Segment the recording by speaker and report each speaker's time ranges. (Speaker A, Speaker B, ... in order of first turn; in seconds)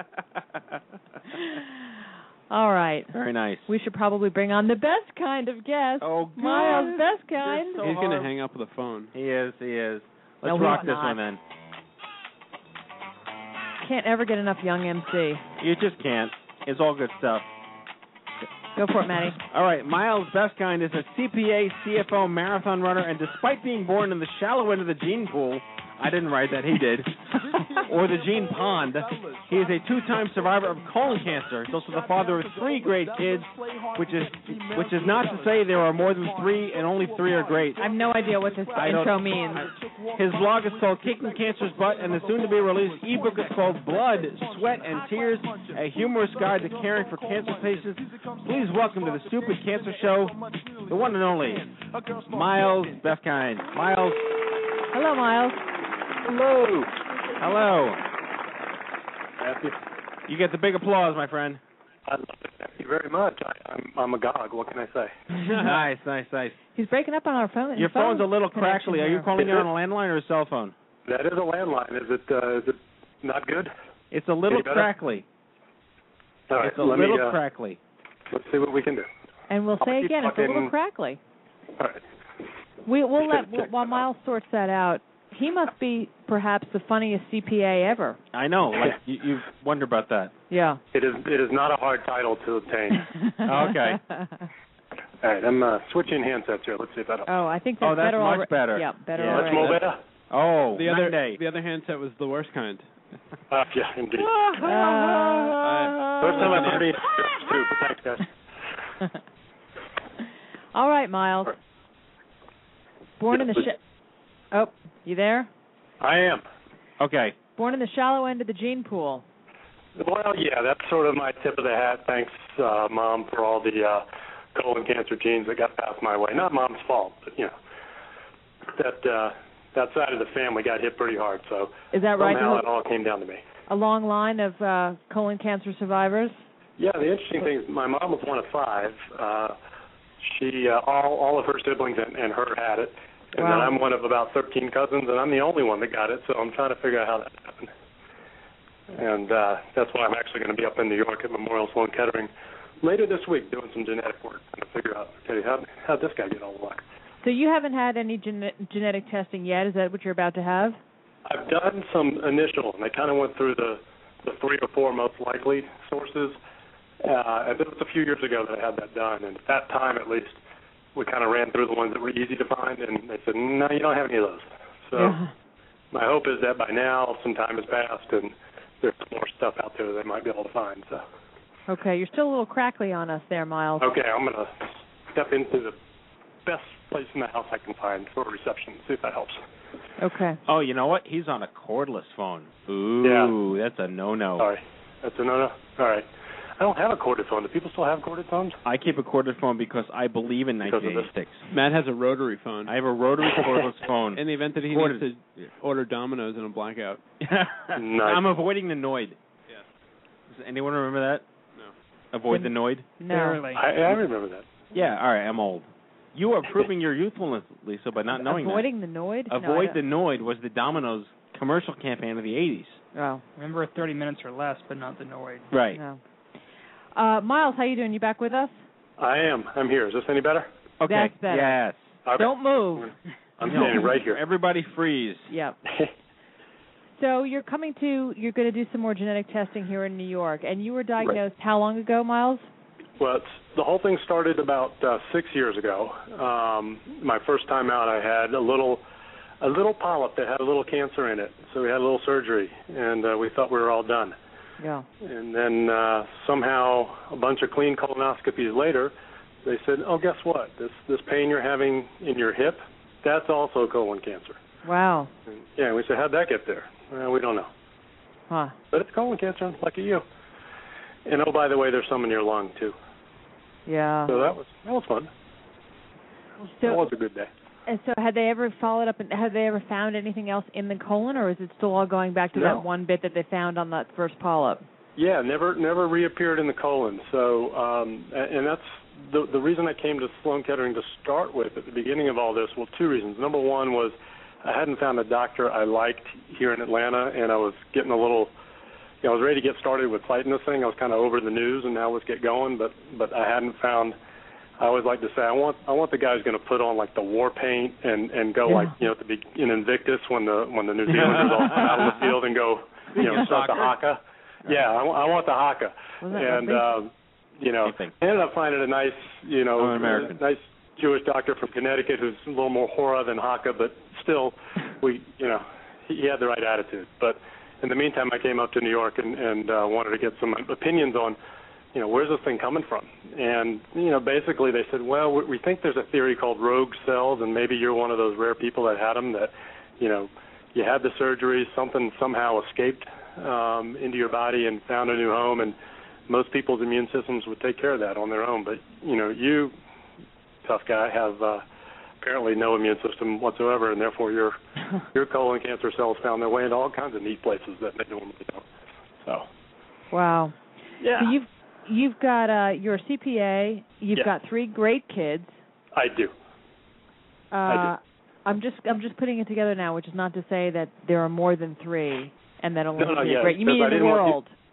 Speaker A: 1.3-1.8, 2.5-3.1, 3.7-7.8, 10.4-11.2, 13.8-15.4, 18.8-19.4, 37.8-39.7, 54.9-55.6, 66.8-69.3, 79.5-81.2, 82.9-88.2, 90.5-90.8, 93.0-94.5, 97.3-99.8, 104.6-105.6, 110.7-111.6, 113.2-113.8, 114.5-115.5, 117.6-119.2, 131.9-132.7, 133.7-136.4, 143.4-143.7, 157.2-160.8, 175.0-175.3, 181.7-183.9, 190.0-190.4, 212.3-213.4, 218.1-219.8, 222.9-223.2, 225.7-226.0, 226.9-228.5, 230.9-231.6, 232.2-232.9, 235.3-235.6, 237.0-242.5, 254.6-254.9, 264.6-265.1, 268.3-268.6, 273.7-274.1, 276.5-276.9, 277.7-284.6, 316.0-316.7, 359.9-360.4, 360.9-365.4, 367.3-374.3
Speaker B: 3.1-3.7, 6.0-8.3, 9.1-11.4, 15.6-17.5, 19.5-37.9, 38.7-54.3, 56.3-56.9, 57.4-58.0, 60.3-61.6, 65.4-66.6, 67.8-70.8, 74.1-75.3, 76.6-77.8, 88.3-90.3, 93.5-94.0, 97.8-101.4, 104.2-106.8, 117.0-117.4, 190.5-194.5, 198.7-201.4, 202.7-205.1, 207.2-209.2, 210.3-211.2, 212.1-212.9, 214.7-218.7, 219.3-222.8, 225.5-225.8, 230.8-232.0, 233.4-235.3, 310.9-312.1, 312.9-313.8, 317.6-317.9, 319.6-320.2
Speaker C: 7.8-9.1, 100.7-102.9, 105.6-106.9, 201.5-202.7, 204.2-207.0
Speaker D: 59.4-59.8, 62.1-65.1, 69.4-69.7, 71.1-73.7, 74.5-74.9, 76.5-77.4, 78.3-79.1, 79.8-80.7, 83.2-83.7, 90.9-93.1, 95.2-97.3, 99.2-100.0, 103.5-104.3, 106.2-108.3, 116.0-116.5, 120.0-127.5, 128.8-133.4, 136.8-139.6, 140.2-147.7, 148.9-152.3, 152.8-156.8, 161.3-166.4, 167.0-170.4, 170.9-175.2, 175.9-181.0, 183.8-185.8, 186.4-189.4, 193.0-193.3, 194.4-196.1, 196.6-198.6, 200.6-201.1, 207.8-208.2, 213.5-214.5, 229.0-230.5, 232.1-234.2, 243.0-248.8, 249.4-254.2, 255.0-258.9, 259.4-264.4, 265.3-267.5, 268.7-270.0, 271.1-272.8, 274.1-275.1, 276.6-277.3, 282.4-282.6, 285.0-298.3, 299.0-304.0, 304.6-331.2, 331.7-345.6, 346.1-349.6, 350.4-351.4, 352.0-354.4, 354.9-358.5, 359.0-359.3, 360.8-361.1, 365.7-366.1, 367.5-367.7, 372.8-374.2
Speaker E: 213.0-213.7, 223.4-225.5